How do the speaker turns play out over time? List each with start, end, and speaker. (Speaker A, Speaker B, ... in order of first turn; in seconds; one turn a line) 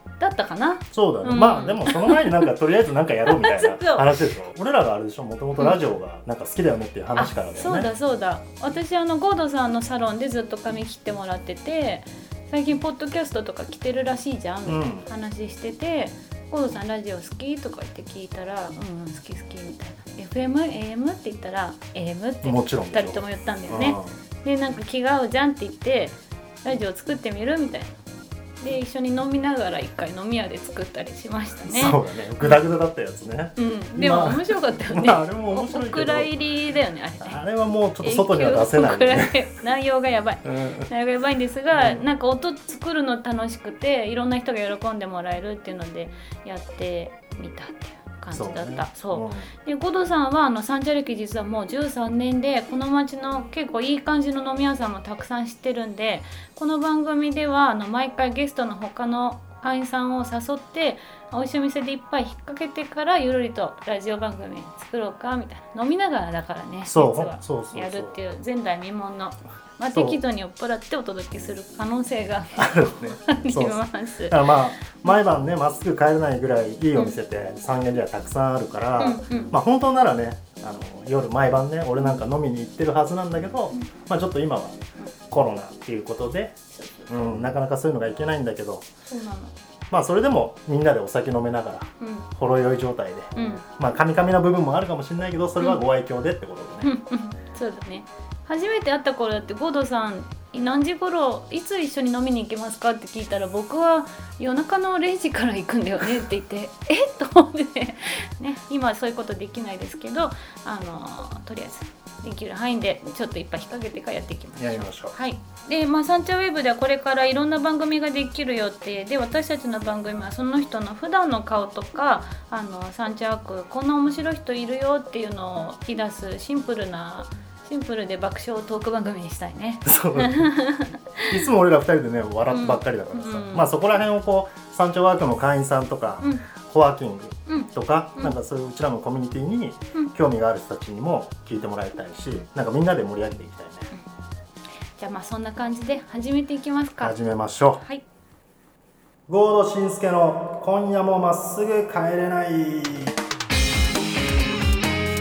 Speaker A: 0.2-2.2
Speaker B: 0.9-7.9
Speaker A: 3.3-4.2
Speaker A: 7.2-27.9
Speaker B: 14.7-15.1
Speaker B: 22.4-24.1
Speaker A: 28.6-32.6
Speaker B: 31.6-36.3
Speaker A: 33.6-37.4
Speaker B: 37.2-39.4
Speaker A: 38.0-74.6
Speaker B: 40.5-40.9
Speaker B: 41.7-42.0
Speaker B: 48.3-49.5
Speaker B: 66.8-68.2
Speaker B: 69.9-70.2
Speaker B: 72.6-84.8
Speaker A: 79.0-79.5
Speaker B: 85.3-86.6
Speaker A: 86.7-87.2
Speaker B: 87.1-88.9
Speaker A: 89.1-89.5
Speaker B: 89.9-96.9
Speaker A: 92.0-92.3
Speaker A: 93.3-93.6
Speaker A: 96.8-131.3
Speaker B: 114.6-115.1
Speaker B: 129.8-130.5
Speaker B: 131.3-143.9
Speaker A: 132.5-133.7
Speaker A: 137.5-138.3
Speaker A: 145.0-147.2
Speaker B: 147.0-147.8
Speaker B: 149.3-153.2